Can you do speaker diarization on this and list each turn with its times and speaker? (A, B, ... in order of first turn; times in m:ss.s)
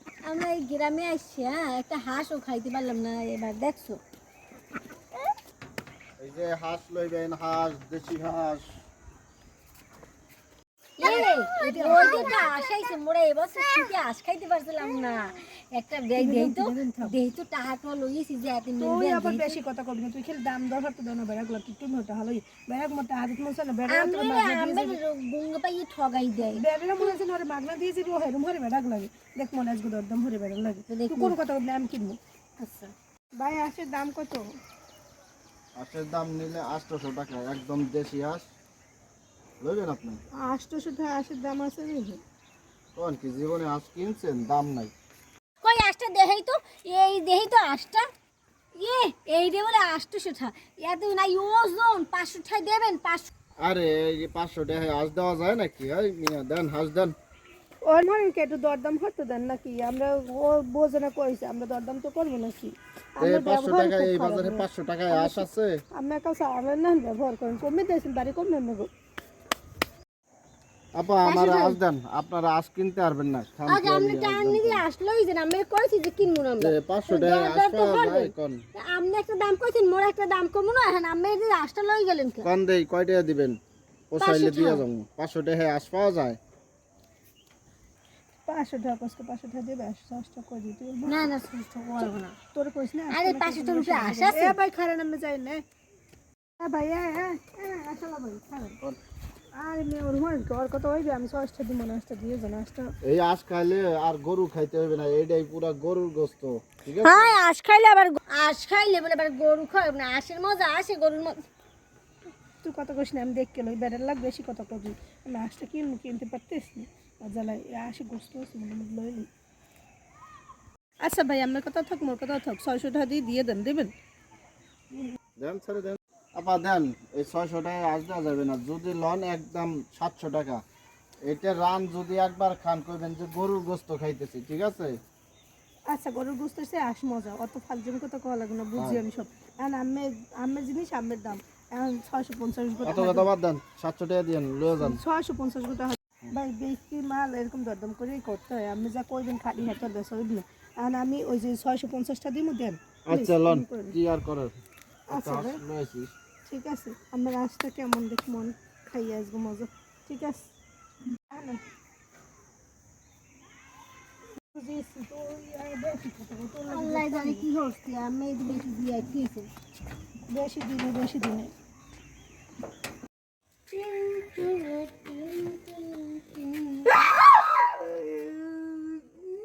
0:00.2-0:04.0 A
0:06.2-0:08.7 B
0:11.0-0:19.6 A
0:11.0-0:12.5 C
0:16.2-0:17.1 C
0:18.8-0:25.0 C
0:23.9-0:26.6 A
0:26.5-0:32.2 C
0:30.9-0:31.4 A
0:32.6-0:32.9 A
0:33.4-0:34.5 C
0:35.8-0:38.5 B
0:39.6-0:40.2 B
0:40.4-0:42.2 C
0:42.9-0:44.9 B
0:45.6-0:48.1 A
0:48.8-0:53.3 A
0:53.6-0:57.1 B
0:57.8-1:08.9 C
1:03.2-1:05.8 B
1:11.0-1:14.8 B
1:11.2-1:11.8 A
1:13.7-1:22.4 A
1:16.6-1:18.6 B
1:22.4-1:23.6 B
1:24.1-1:26.4 B
1:24.2-1:24.8 A
1:28.4-1:31.3 C
1:31.1-1:32.3 A
1:32.0-1:35.6 C
1:33.1-1:34.6 A
1:36.6-1:38.8 C
1:39.6-1:42.9 C
1:43.0-1:47.4 B
1:47.0-1:51.4 A
1:52.6-1:59.3 C
2:01.0-2:03.9 C
2:05.4-2:10.6 B
2:11.2-2:15.0 B
2:15.9-2:23.3 C
2:18.8-2:19.0 B
2:22.8-2:25.0 B
2:24.8-2:34.0 C
2:33.0-2:34.6 B
2:35.1-2:35.6 C
2:35.1-2:36.1 B
2:36.4-2:40.5 C
2:41.3-2:41.6 C
2:44.5-2:47.5 C
2:46.7-2:49.5 A
2:50.3-2:51.5 C
2:53.7-2:58.9 A